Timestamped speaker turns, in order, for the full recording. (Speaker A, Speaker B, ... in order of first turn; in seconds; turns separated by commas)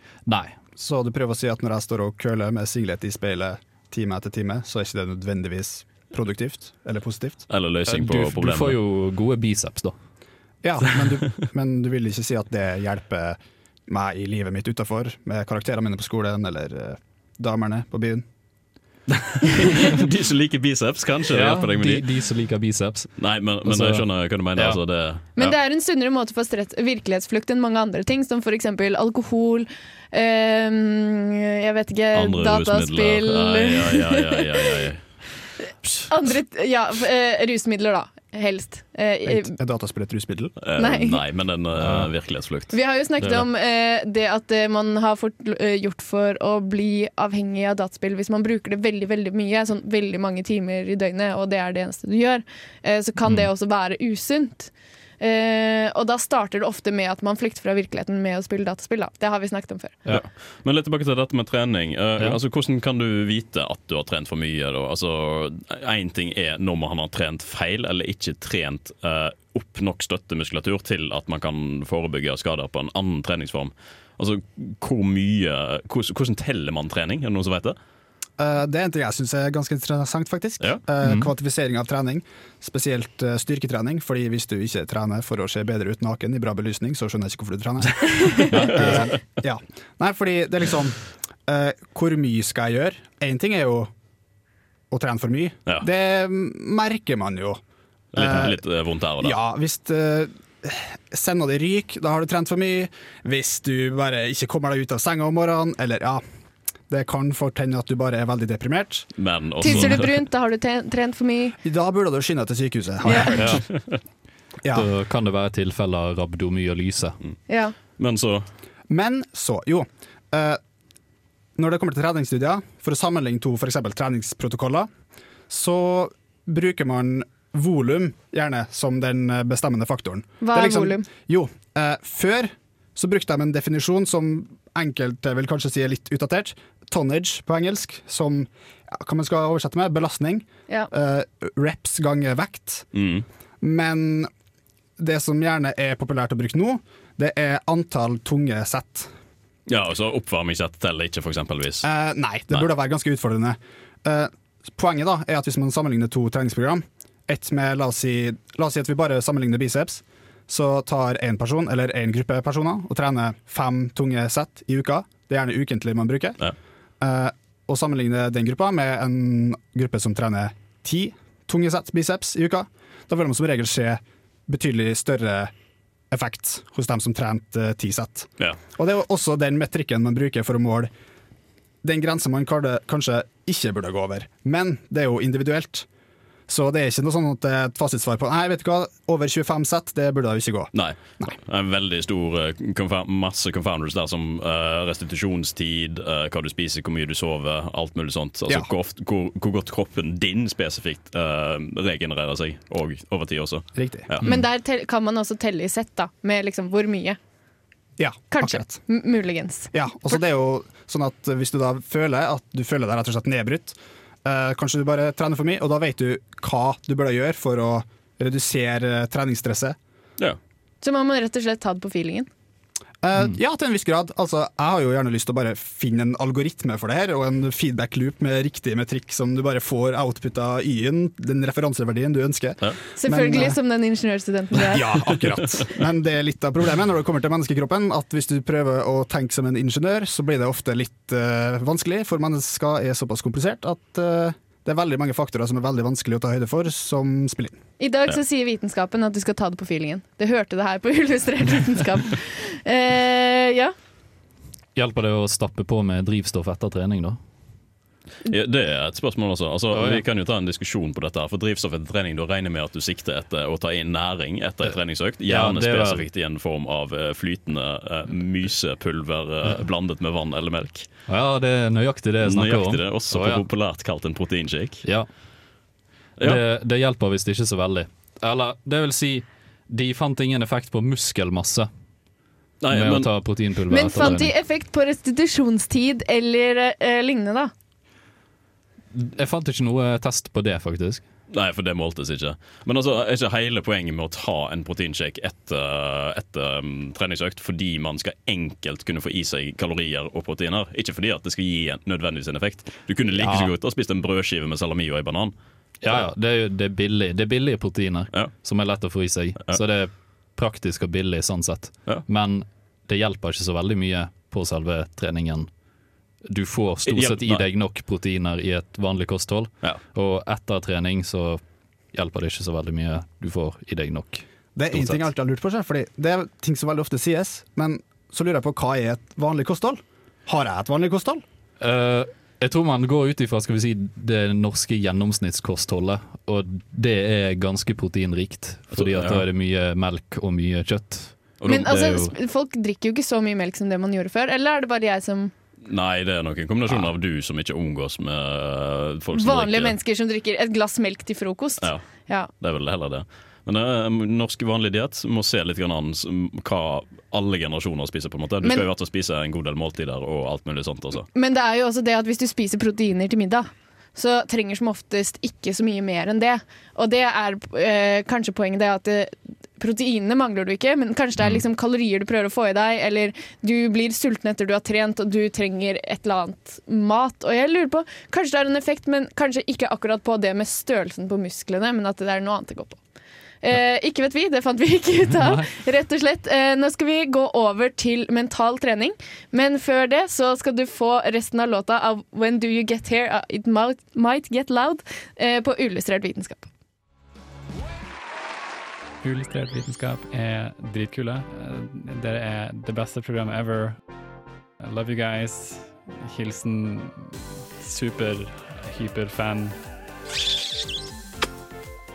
Speaker A: 0.2-0.6, Speaker B: 0.8-7.4, Speaker C: 7.5-8.8, Speaker A: 7.8-9.9, Speaker B: 10.6-18.2, Speaker C: 19.4-22.1, Speaker A: 21.3-24.8, Speaker C: 23.2-25.6, Speaker D: 25.4-34.8, Speaker C: 32.1-35.1, Speaker C: 35.8-36.3, Speaker D: 36.1-39.5, Speaker B: 39.3-40.5, Speaker C: 40.6-42.7, Speaker D: 40.8-41.2, Speaker A: 41.8-42.1, Speaker D: 42.7-60.0, Speaker A: 43.2-43.5, Speaker A: 53.2-53.5, Speaker C: 60.1-77.8, Speaker B: 78.4-93.9, Speaker A: 81.0-81.3, Speaker C: 88.5-89.2, Speaker A: 88.6-88.9, Speaker B: 94.9-97.6, Speaker C: 98.1-99.3, Speaker B: 98.1-98.6, Speaker B: 99.2-106.2, Speaker B: 106.9-109.1, Speaker C: 109.2-110.1, Speaker D: 109.6-111.6, Speaker B: 111.6-113.6, Speaker D: 113.0-113.4, Speaker A: 113.4-113.6, Speaker B: 114.6-114.9, Speaker A: 114.7-117.2, Speaker D: 117.5-117.7, Speaker C: 118.0-118.5, Speaker B: 118.9-120.6, Speaker B: 121.5-124.9, Speaker B: 125.5-142.9, Speaker D: 130.4-131.1, Speaker C: 142.9-143.2, Speaker B: 143.6-144.3, Speaker B: 145.0-149.1, Speaker C: 149.7-151.9, Speaker B: 151.8-166.4, Speaker B: 167.0-175.5, Speaker B: 176.1-180.9, Speaker B: 181.8-185.9, Speaker B: 186.5-191.3, Speaker C: 190.7-204.3, Speaker B: 203.8-204.1, Speaker D: 204.2-207.2, Speaker B: 208.0-208.8, Speaker D: 208.3-210.2, Speaker B: 209.7-219.8, Speaker D: 220.8-222.3, Speaker B: 223.0-233.6, Speaker D: 233.0-235.1, Speaker B: 234.6-247.6, Speaker D: 247.8-253.7, Speaker A: 254.7-257.2, Speaker C: 258.2-270.9, Speaker A: 259.7-260.0, Speaker A: 265.2-266.0, Speaker A: 271.1-273.4, Speaker C: 272.2-274.8, Speaker A: 276.2-281.7, Speaker C: 282.6-283.1, Speaker A: 282.7-284.3, Speaker D: 283.7-287.5, Speaker A: 288.9-291.0, Speaker C: 291.3-305.3, Speaker A: 303.1-303.5, Speaker A: 305.8-315.5, Speaker A: 316.3-321.4, Speaker C: 316.9-317.4, Speaker A: 321.9-325.1, Speaker B: 324.5-331.2, Speaker A: 331.6-341.2, Speaker C: 338.7-339.2, Speaker C: 341.4-342.1, Speaker D: 341.5-345.3, Speaker C: 345.7-349.8, Speaker D: 349.1-352.3, Speaker C: 352.4-361.1, Speaker D: 361.1-382.8, Speaker D: 383.4-396.5, Speaker E: 399.0-403.8, Speaker E: 404.6-409.6